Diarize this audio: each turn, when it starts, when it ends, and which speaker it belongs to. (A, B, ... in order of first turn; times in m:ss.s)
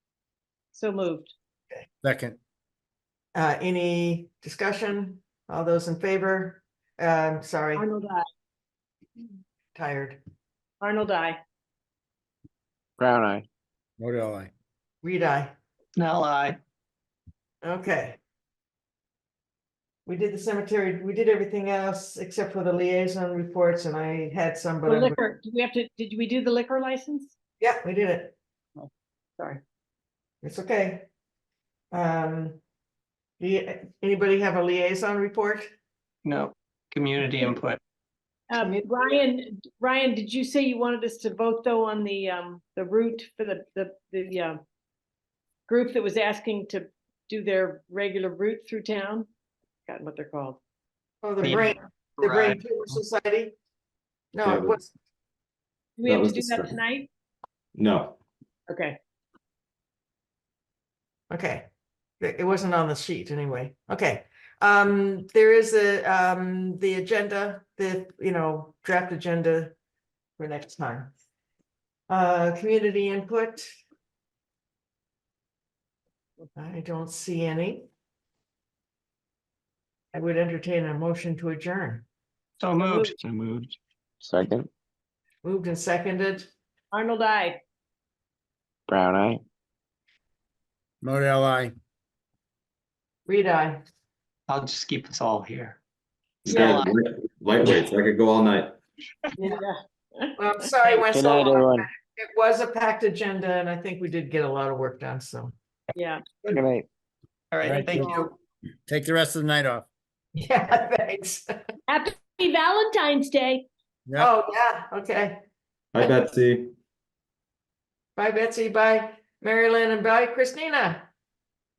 0:00.7-0:01.3 A
0:02.0-0:02.4 B
0:03.3-0:07.8 C
0:07.7-0:08.2 A
0:09.7-0:10.2 C
0:10.8-0:11.4 A
0:13.0-0:13.4 D
0:14.0-0:14.5 B
0:15.0-0:15.5 C
0:16.0-0:16.6 E
0:17.6-0:18.2 C
0:20.0-0:25.2 C
0:24.8-0:27.4 A
0:27.6-0:28.4 C
0:30.4-0:31.1 C
0:31.9-0:32.6 C
0:33.4-0:35.7 C
0:36.2-0:37.8 E
0:38.5-0:44.6 A
0:38.6-0:39.2 C
0:45.7-0:49.3 A
0:49.9-0:50.6 A
0:51.2-0:53.6 C
0:51.4-0:52.6 E
0:54.3-0:54.9 C
0:54.4-0:54.8 F
0:56.0-0:57.1 A
0:56.0-0:56.8 F
0:57.7-0:58.2 F
0:58.7-0:59.0 A
1:01.3-1:01.7 C
1:02.2-1:09.8 C
1:10.4-1:11.1 C
1:12.1-1:13.8 C
1:16.6-1:17.9 C
1:20.1-1:22.0 C
1:22.6-1:23.6 E
1:22.8-1:23.1 A
1:24.2-1:24.7 D
1:25.4-1:26.5 C
1:26.9-1:27.6 A
1:28.9-1:29.4 D
1:31.0-1:31.7 B
1:33.2-1:33.8 C
1:34.5-1:35.8 E
1:36.4-1:38.8 F
1:36.5-1:36.9 A
1:36.5-1:36.9 E
1:39.4-1:41.0 A
1:40.4-1:45.5 C
1:41.1-1:41.9 D
1:45.9-1:46.2 A
1:46.5-1:46.9 D
1:47.5-1:48.3 E
1:47.6-1:48.2 B
1:48.9-1:49.9 B
1:50.3-1:51.5 C
1:51.9-1:53.7 A
1:54.2-1:55.4 C
1:55.9-1:56.7 F
1:58.2-2:01.1 C